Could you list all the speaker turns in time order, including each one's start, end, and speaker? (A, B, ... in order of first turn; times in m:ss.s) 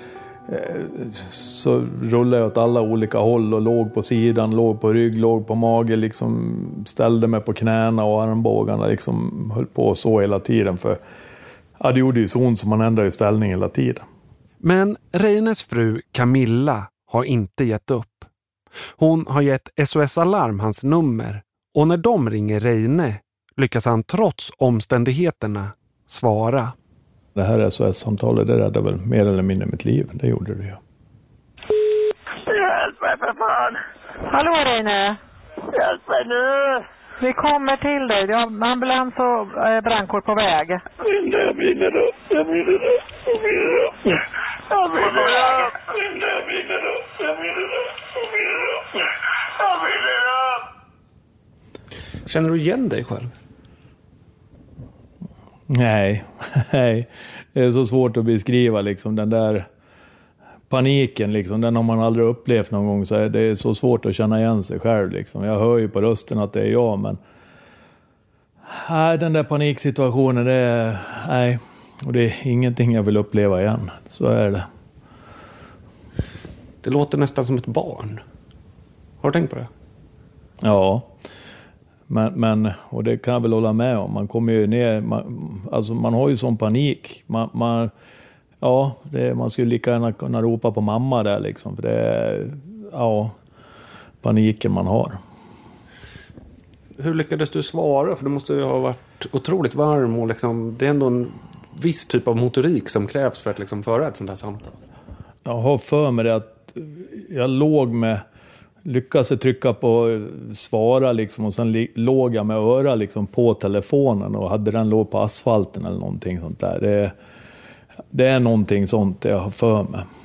0:00.5-0:11.0 A
0:11.8-0:14.0 A
0:14.6-0:18.3 B
0:19.0-0:26.7 B
0:27.4-0:30.8 A
0:32.5-0:33.8 C
0:34.3-0:35.2 D
0:35.7-0:36.8 C
0:37.2-0:40.8 D
0:41.0-0:43.9 C
0:44.7-0:47.2 C
0:45.0-0:45.5 E
0:49.6-0:50.3 C
0:52.3-0:53.3 E
0:55.7-0:59.7 A
1:00.7-1:07.2 A
1:08.7-1:14.6 A
1:16.8-1:18.2 E
1:19.2-1:19.7 E
1:20.6-1:21.1 A
1:22.1-1:27.9 A
1:28.6-1:33.3 A
1:34.2-1:35.2 A
1:37.0-1:44.7 E
1:45.4-1:48.2 A
1:48.8-1:57.1 A
1:58.1-2:00.0 A